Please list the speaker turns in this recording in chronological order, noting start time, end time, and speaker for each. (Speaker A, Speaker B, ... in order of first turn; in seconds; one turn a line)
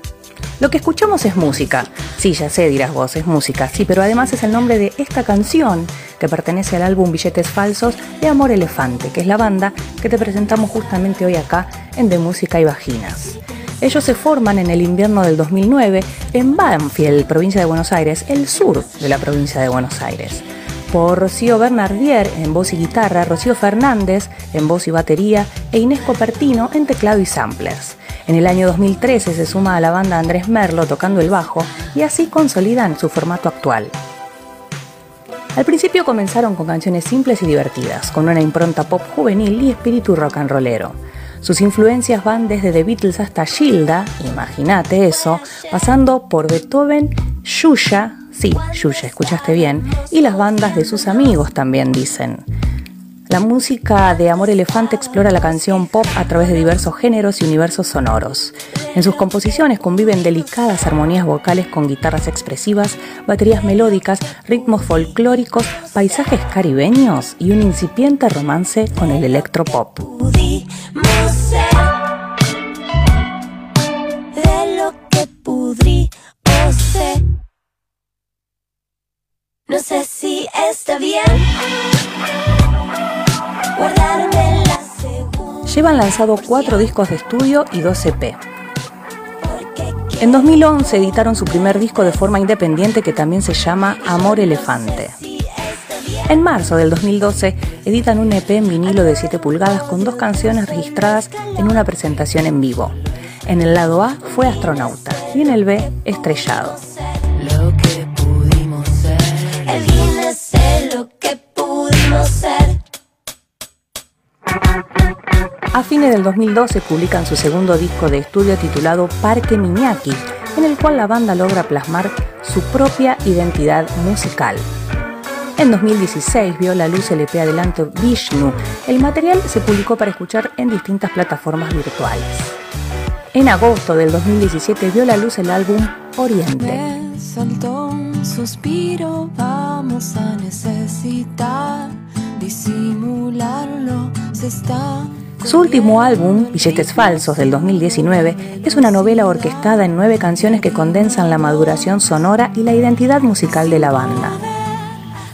Speaker A: 0.6-33.9
Speaker A: 35.5-52.5
Speaker A: 53.3-70.3
Speaker B: 70.5-71.9
Speaker B: 74.3-77.2
Speaker B: 79.7-81.5
Speaker B: 83.8-85.2
Speaker A: 85.6-88.4
Speaker A: 90.2-95.3
Speaker A: 96.0-106.8
Speaker B: 107.4-112.7
Speaker A: 115.7-124.7
Speaker A: 125.6-132.6
Speaker A: 133.3-136.8
Speaker B: 136.6-149.9
Speaker A: 145.4-154.4